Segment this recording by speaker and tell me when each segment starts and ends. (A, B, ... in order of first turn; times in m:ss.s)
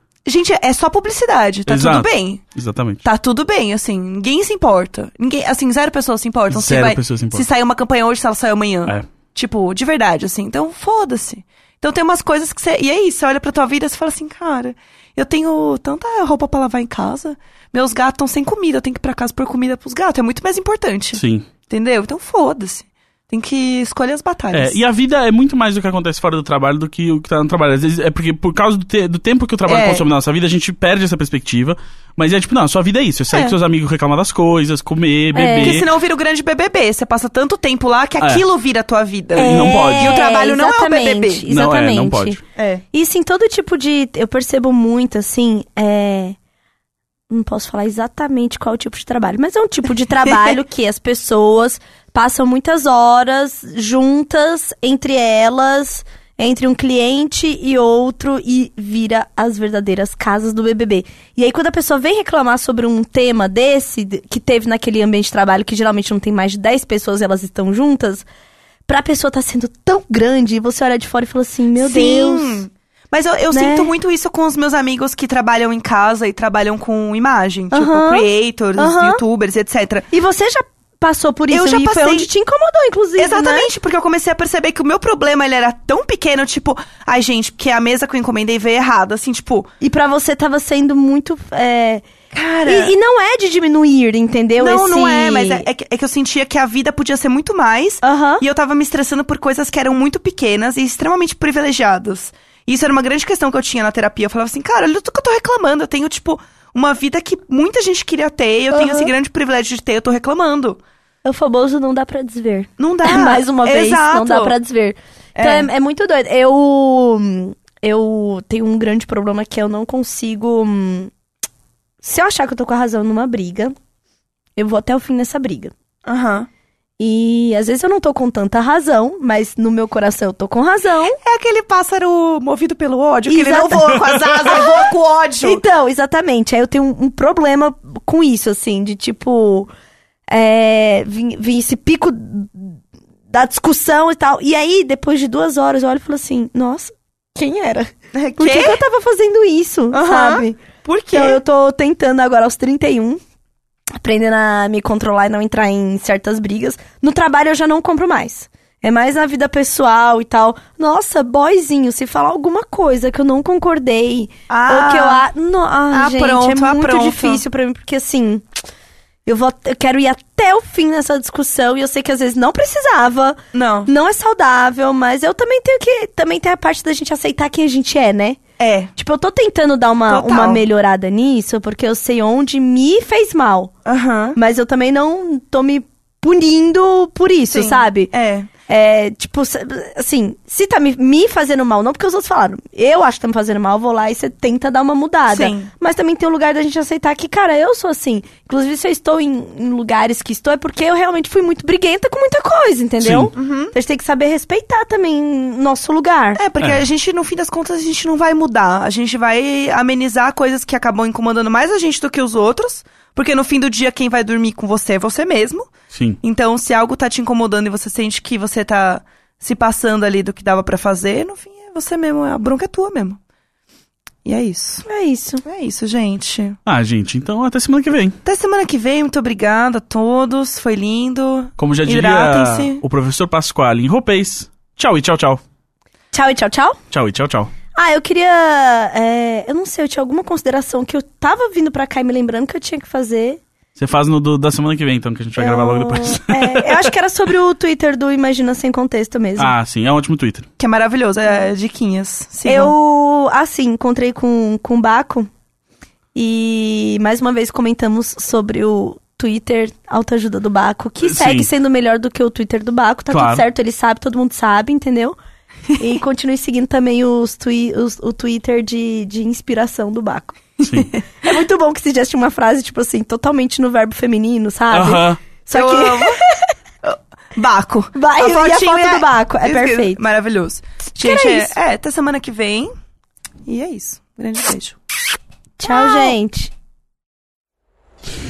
0:00.3-0:02.4 A
0:01.7-0:03.0 B
0:03.0-0:24.8 A
0:06.5-0:07.4 B
0:21.1-0:21.5 B
0:24.5-0:35.9 B
0:29.7-0:30.0 A
0:33.3-0:33.6 A
0:35.3-0:35.8 C
0:35.6-0:41.5 A
0:39.4-0:42.4 C
0:39.4-0:40.2 B
0:41.5-0:42.4 B
0:42.6-0:42.8 A
0:42.9-0:46.4 C
0:47.3-1:08.2 C
1:08.9-1:12.6 C
1:11.8-1:20.1 A
1:13.5-1:13.9 C
1:17.7-1:18.3 C
1:18.8-1:19.2 C
1:20.1-1:23.7 C
1:21.5-1:22.3 A
1:23.2-1:29.7 A
1:29.8-1:32.0 C
1:32.3-1:32.9 A
1:32.7-1:35.7 C
1:34.6-1:50.8 A
1:38.0-1:38.4 C
1:48.7-1:49.1 C
1:51.2-2:01.1 C
1:52.8-1:54.5 A
1:55.4-1:55.7 A
2:02.0-2:03.8 C
2:04.6-2:05.7 C
2:06.0-2:06.5 A
2:07.0-2:11.2 C
2:11.2-2:15.6 A
2:13.3-2:14.7 C
2:15.4-2:19.7 C
2:20.3-2:22.8 C
2:23.3-2:30.6 C
2:28.1-2:28.8 A
2:29.9-2:31.4 A
2:31.1-2:33.2 C
2:34.0-2:48.4 C
2:44.5-2:45.3 A
2:45.9-2:47.4 A
2:49.3-2:58.4 C
2:53.5-2:53.9 A
2:58.6-2:58.9 A
2:59.0-3:03.7 C
3:00.1-3:00.6 A
3:03.9-3:04.4 A
3:04.4-3:08.1 C
3:07.5-3:08.5 A
3:08.7-3:26.4 C
3:15.3-3:15.7 A
3:23.0-3:23.3 B
3:23.4-3:23.7 A
3:26.4-3:43.2 A
3:35.9-3:36.2 B
3:44.2-3:44.8 A
3:44.9-3:45.4 C
3:45.4-3:46.6 A
3:46.7-3:48.2 B
3:48.2-3:52.8 A
3:51.6-3:55.4 B
3:56.1-3:56.8 C
3:56.9-3:57.5 B
3:57.8-4:03.4 C
4:03.8-4:06.9 B
4:05.4-4:09.6 C
4:09.4-4:10.5 B
4:10.6-4:12.7 A
4:12.4-4:15.3 C
4:16.2-4:25.2 C
4:21.0-4:21.5 B
4:23.1-4:23.4 B
4:25.8-4:30.4 C
4:30.6-4:30.9 B
4:31.2-4:36.5 C
4:34.7-4:35.2 B
4:35.5-4:36.2 A
4:36.8-4:42.7 A
4:38.0-4:40.0 C
4:41.0-4:41.5 C
4:43.5-4:44.8 A
4:45.6-4:46.5 C
4:45.7-4:46.1 A